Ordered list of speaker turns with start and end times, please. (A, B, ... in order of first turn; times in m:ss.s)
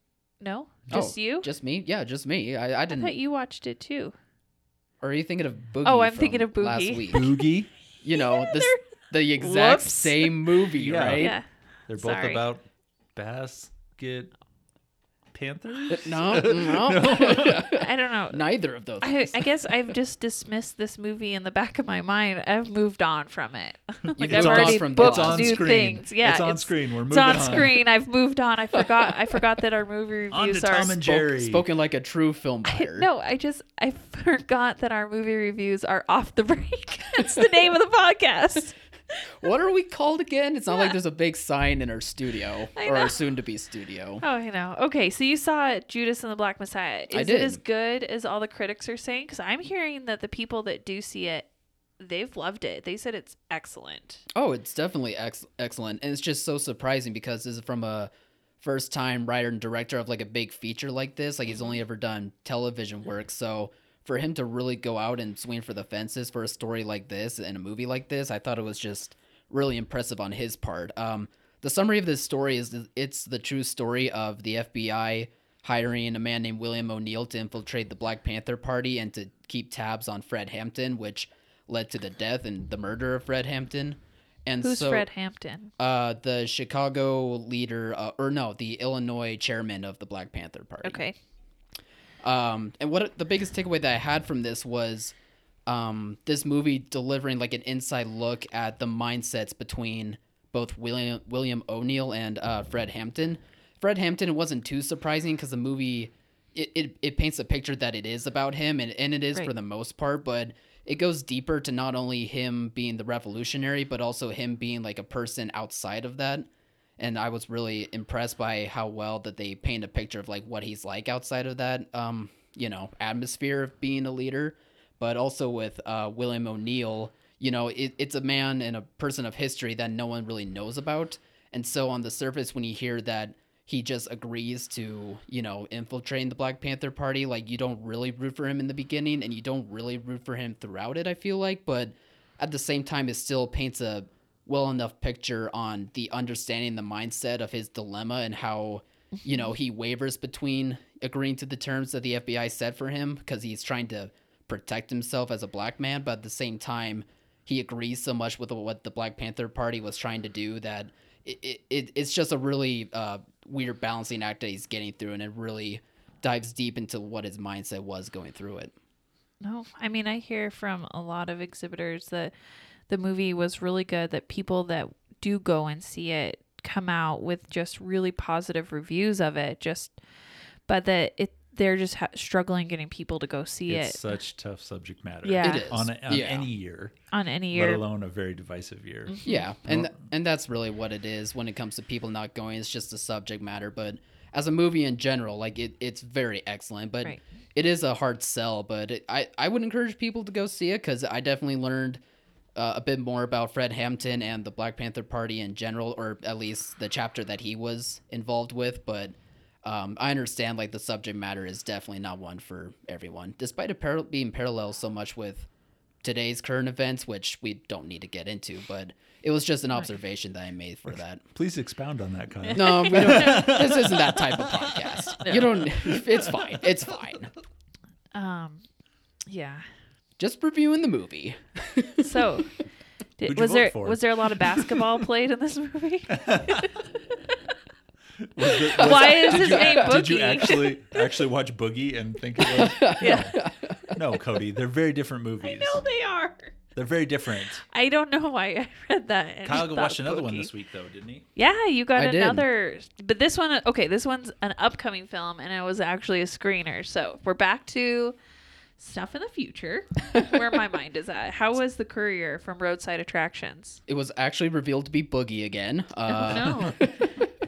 0:00.4-0:01.5 A
0:00.9-0:03.1 B
0:02.9-0:04.1 A
0:05.0-0:07.3 B
0:05.8-0:07.4 A
0:07.1-0:07.7 C
0:08.0-0:11.4 B
0:08.2-0:08.8 A
0:09.3-0:10.3 A
0:10.8-0:11.3 C
0:11.2-0:11.4 A
0:11.9-0:14.3 C
0:12.0-0:12.4 A
0:15.3-0:17.7 C
0:15.9-0:19.7 B
0:17.6-0:18.4 A
0:19.0-0:31.0 A
0:24.2-0:27.8 C
0:24.2-0:25.7 B
0:28.8-0:29.1 B
0:30.3-0:31.6 C
0:31.0-0:33.1 B
0:32.6-0:38.7 A
0:39.4-0:44.2 B
0:42.7-0:43.2 A
0:44.2-0:51.5 A
0:47.1-0:47.6 B
0:52.0-0:54.2 A
0:54.3-1:25.1 B
1:24.6-1:25.7 A
1:25.8-1:31.0 B
1:30.8-1:31.2 A
1:32.2-1:35.1 B
1:35.6-2:48.7 B
2:49.4-2:52.3 A
2:52.9-3:00.0 A
3:00.7-3:04.2 A
3:03.7-3:06.9 C
3:05.2-3:05.7 A
3:05.4-3:06.5 B
3:07.1-3:07.8 A
3:07.5-3:09.9 C
3:09.1-3:09.5 A
3:09.2-3:22.0 B
3:22.6-3:35.5 B
3:36.0-3:41.2 B
3:41.3-3:45.1 C
3:42.4-3:43.5 A
3:42.5-3:47.3 B
3:45.2-3:45.5 A
3:45.6-3:46.4 C
3:48.1-3:48.6 A
3:49.3-3:49.6 A
3:50.2-3:52.3 B
3:52.0-3:52.5 A
3:53.2-3:56.8 A
3:53.3-3:54.7 C
3:56.1-3:56.7 C
3:58.2-4:05.8 C
3:58.5-4:01.0 A
3:58.7-4:00.0 B
4:02.4-4:04.0 B
4:02.8-4:03.4 A
4:05.4-4:06.6 A
4:06.7-4:07.6 C
4:07.6-4:10.5 A
4:09.4-4:11.2 C
4:11.4-4:18.2 A
4:11.9-4:12.4 B
4:18.8-4:23.8 A
4:23.9-4:27.0 B
4:26.1-4:26.9 A